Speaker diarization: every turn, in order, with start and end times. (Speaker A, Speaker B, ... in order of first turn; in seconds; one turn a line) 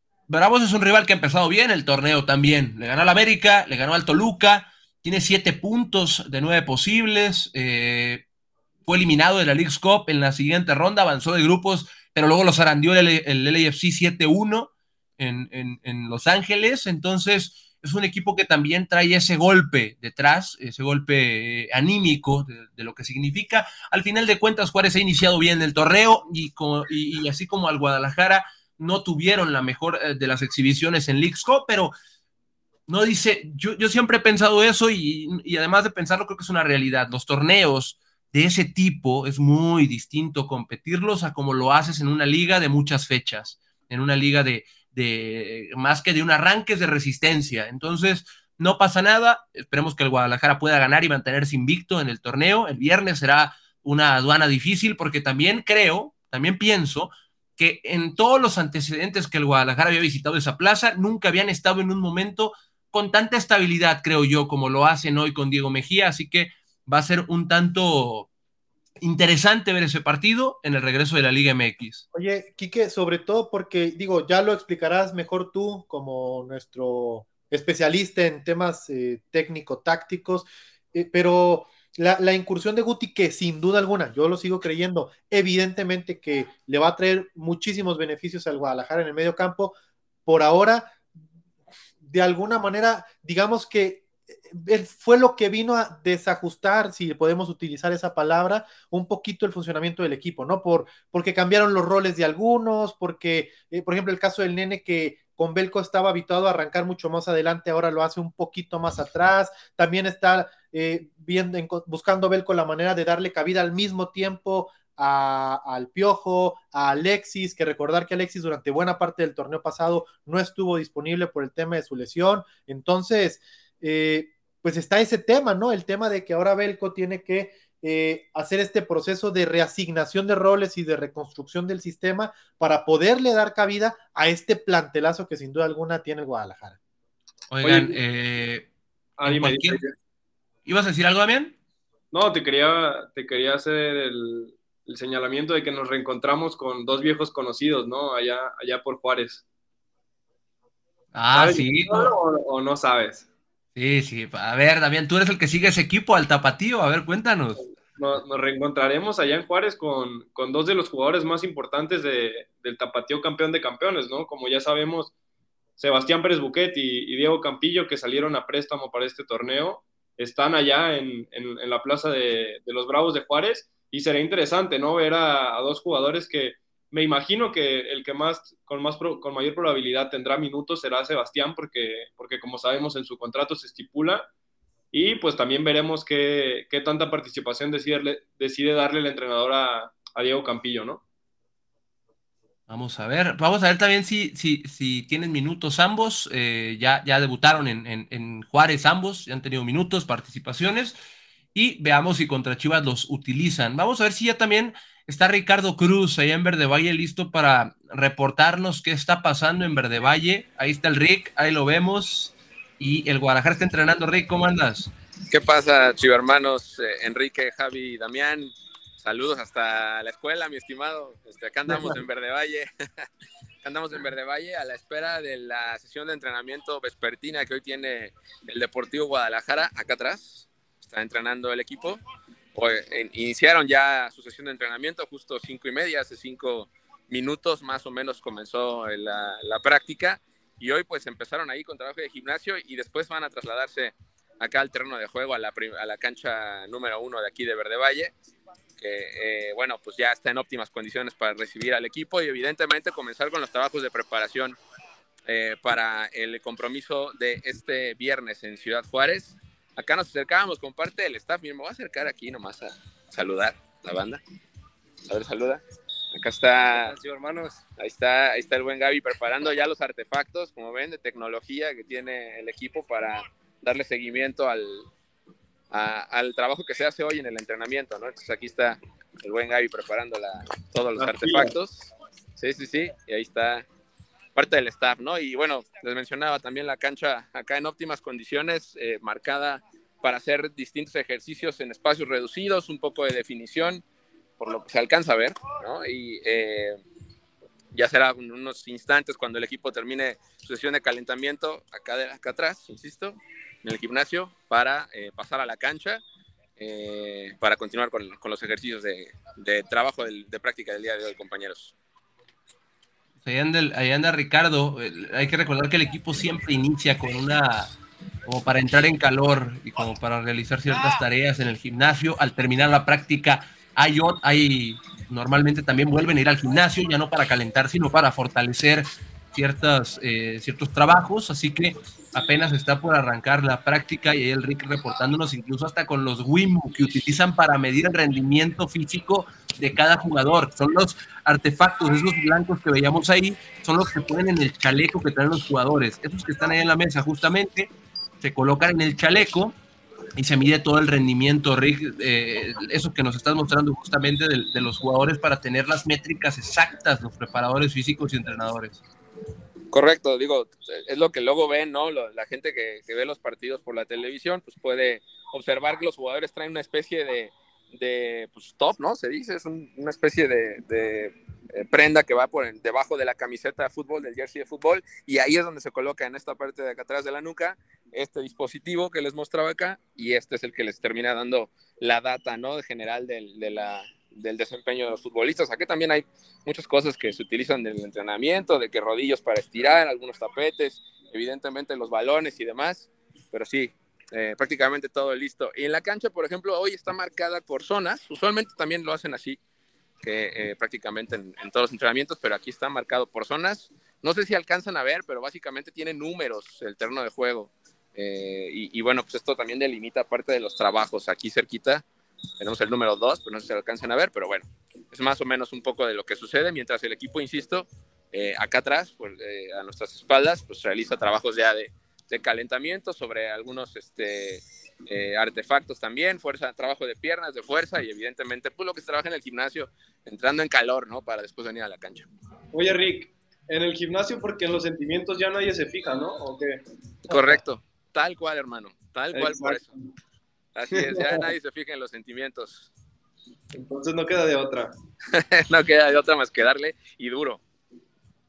Speaker A: 0.3-8.2
Speaker A: 8.8-31.9
Speaker A: 32.9-68.3
Speaker A: 69.0-72.0
Speaker B: 72.1-89.8
Speaker B: 90.3-91.0
Speaker B: 92.0-136.8
Speaker A: 137.5-138.7
Speaker C: 137.6-138.0
Speaker C: 139.2-139.9
Speaker A: 139.2-139.8
Speaker A: 140.7-141.6
Speaker C: 142.1-149.4
Speaker A: 151.1-152.1
Speaker C: 151.3-153.3
Speaker A: 153.8-157.7
Speaker C: 157.8-165.1
Speaker C: 165.8-184.3
Speaker C: 184.9-191.0
Speaker A: 192.7-200.9
Speaker A: 201.5-214.9
Speaker D: 215.3-223.1
Speaker B: 221.7-221.9
Speaker D: 223.6-232.0
Speaker D: 232.6-248.2
Speaker D: 248.8-254.6
Speaker D: 255.3-264.2
Speaker D: 265.1-265.6
Speaker D: 266.1-266.9
Speaker C: 266.8-267.6
Speaker D: 267.8-274.9
Speaker D: 275.7-283.7
Speaker C: 281.0-281.6
Speaker D: 284.4-293.8
Speaker D: 294.4-296.8
Speaker D: 297.7-306.0
Speaker D: 306.6-311.8
Speaker A: 313.2-317.7
Speaker A: 318.3-349.6
Speaker A: 350.2-358.8
Speaker D: 359.7-399.4
Speaker D: 400.0-411.9
Speaker D: 412.4-432.1
Speaker C: 432.5-436.6
Speaker D: 437.1-439.7
Speaker C: 437.1-437.4
Speaker C: 439.1-439.8
Speaker D: 440.5-442.7
Speaker C: 440.7-441.3
Speaker C: 443.5-444.7
Speaker D: 445.1-447.4